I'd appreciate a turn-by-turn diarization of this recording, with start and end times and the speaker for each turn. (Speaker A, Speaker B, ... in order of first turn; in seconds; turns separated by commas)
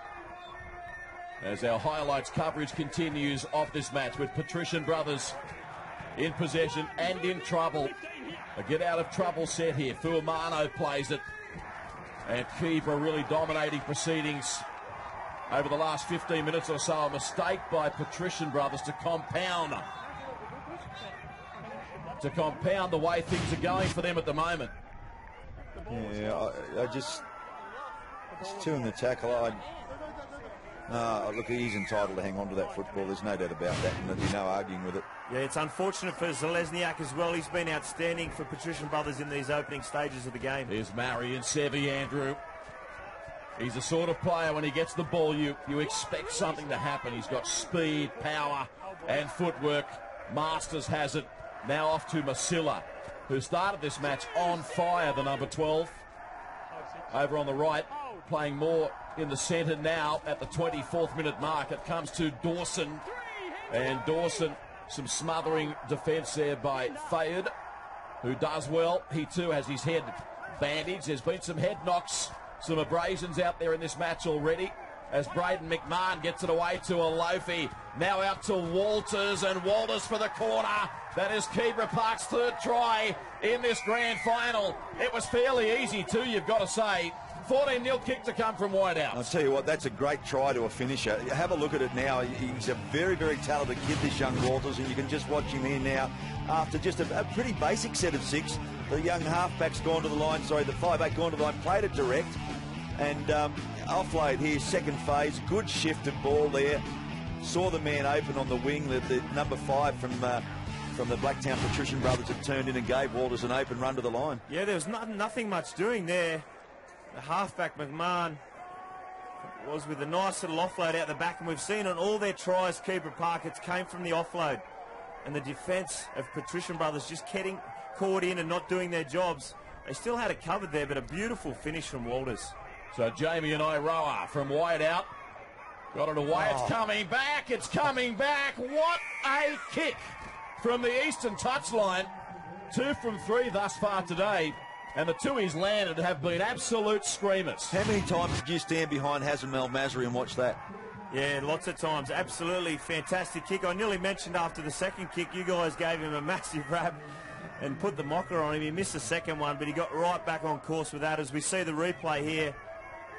Speaker A: 1.4-5.4, Speaker A: 6.2-8.0, Speaker A: 8.6-11.2, Speaker A: 12.2-14.7, Speaker A: 15.5-19.9, Speaker A: 22.2-24.7, Speaker B: 25.9-27.2, Speaker B: 28.4-29.6, Speaker B: 30.9-35.1, Speaker C: 35.3-40.7, Speaker A: 40.7-42.4, Speaker A: 43.6-56.0, Speaker A: 57.1-63.0, Speaker A: 63.7-67.5, Speaker A: 68.2-89.3, Speaker B: 89.1-102.4, Speaker B: 103.0-106.8, Speaker B: 107.4-114.4, Speaker C: 114.5-116.5, Speaker C: 117.1-118.4, Speaker C: 119.4-124.6, Speaker C: 125.2-132.5, Speaker A: 132.9-135.1, Speaker A: 135.9-142.1, Speaker B: 136.3-136.8, Speaker A: 142.7-147.8, Speaker B: 147.7-150.6, Speaker C: 151.1-157.1, Speaker C: 157.6-162.6